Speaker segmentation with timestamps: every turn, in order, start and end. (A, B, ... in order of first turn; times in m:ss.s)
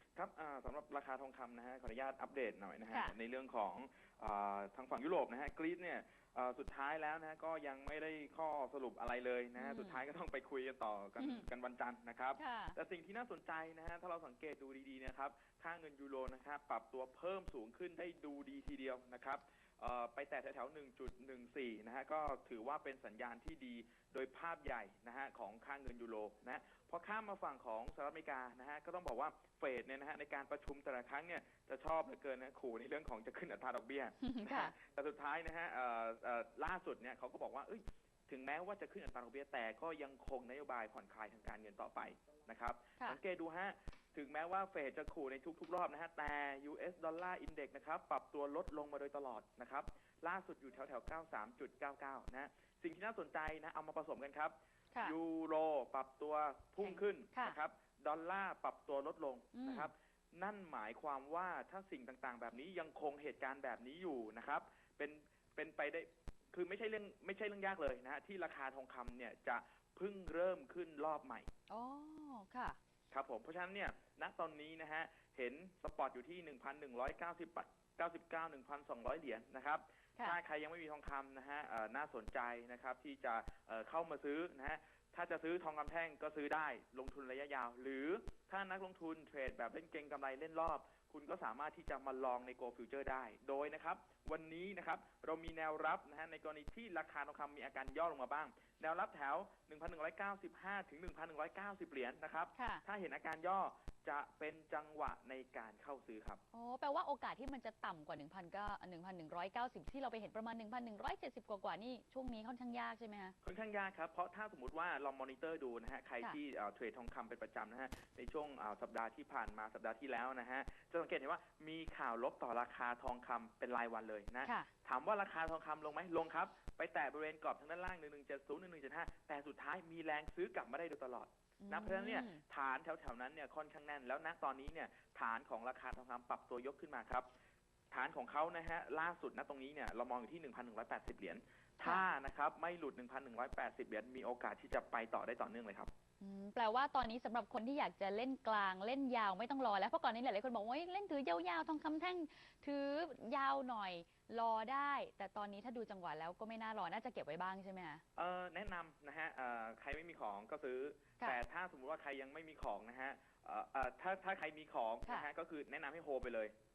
0:00.2-1:11.5 A
0:02.9-0:03.2 B
0:09.6-0:10.0 B
0:11.2-0:11.5 B
0:12.4-0:12.8 B
0:34.2-0:34.7 B
0:56.8-0:57.6 B
0:59.5-0:59.9 B
1:11.7-1:12.8 B
1:13.1-1:46.4 A
1:42.6-1:42.8 B
1:46.5-1:53.4 B
1:53.4-2:17.3 A
2:11.6-2:12.4 B
2:17.9-2:25.9 A
2:26.2-2:38.0 B
2:38.2-2:46.5 A